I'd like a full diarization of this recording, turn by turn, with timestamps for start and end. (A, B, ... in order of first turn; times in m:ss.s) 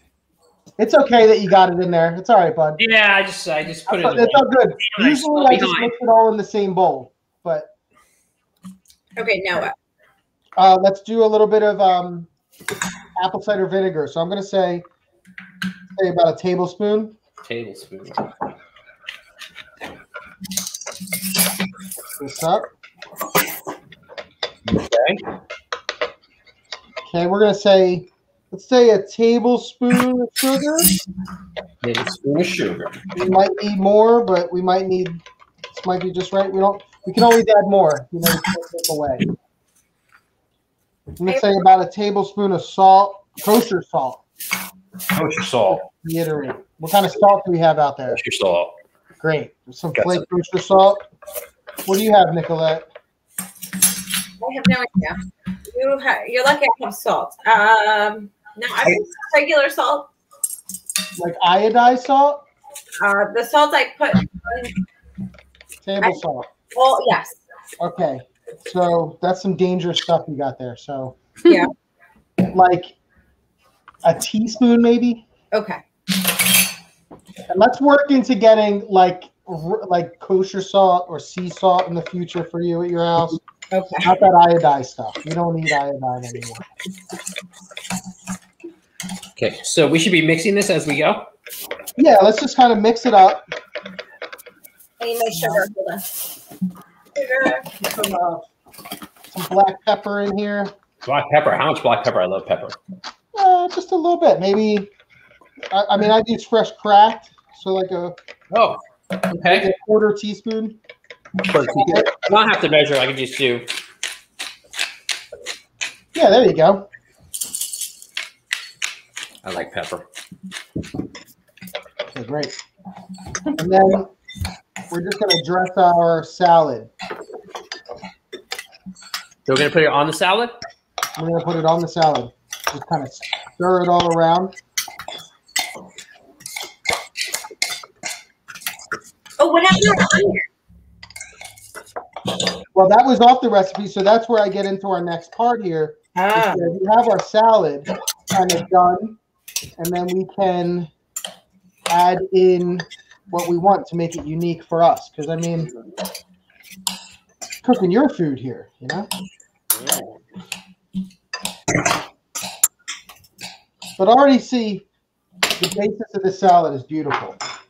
0:00.8-0:02.8 A
0:02.8-0:05.9 B
0:03.9-0:07.7 A
0:09.2-0:09.8 C
0:10.6-0:12.3 A
0:13.2-0:14.9 A
0:16.0-0:17.2 A
0:17.4-0:18.3 B
0:22.2-0:22.7 A
0:24.7-0:25.2 B
0:27.0-0:31.0 A
0:31.8-0:33.0 B
0:33.1-0:35.2 A
0:35.7-0:39.3 A
0:41.2-0:44.2 A
0:45.1-0:45.8 B
0:45.7-0:48.2 A
0:48.1-0:48.7 B
0:49.2-0:51.1 A
0:50.0-0:50.2 B
0:51.9-0:52.9 A
0:54.4-1:00.1 C
1:01.2-1:02.4 A
1:03.0-1:04.8 C
1:05.8-1:06.5 A
1:06.7-1:07.4 C
1:07.8-1:11.2 A
1:11.5-1:11.7 C
1:12.5-1:13.0 A
1:14.0-1:15.2 A
1:15.5-1:15.8 C
1:17.5-1:23.4 A
1:23.7-1:24.1 C
1:24.0-1:26.7 A
1:29.4-1:31.3 B
1:32.0-1:33.4 A
1:35.0-1:36.0 C
1:37.2-1:37.7 C
1:37.8-1:38.4 A
1:39.3-1:40.7 A
1:41.0-1:42.8 B
1:43.3-1:44.9 A
1:45.7-1:48.2 A
1:48.5-1:49.7 B
1:49.4-1:50.8 A
1:51.4-1:53.7 B
1:51.7-1:52.1 A
1:56.1-1:56.9 A
1:59.4-2:00.1 B
2:02.1-2:02.6 A
2:03.6-2:04.1 A
2:04.9-2:06.9 A
2:09.5-2:10.6 B
2:11.2-2:14.5 A
2:19.4-2:20.4 C
2:22.7-2:29.2 A
2:26.2-2:26.7 C
2:29.8-2:30.9 A
2:31.9-2:35.7 A
2:37.6-2:39.1 A
2:39.8-2:40.2 B
2:44.0-2:44.8 A
2:45.6-2:47.4 A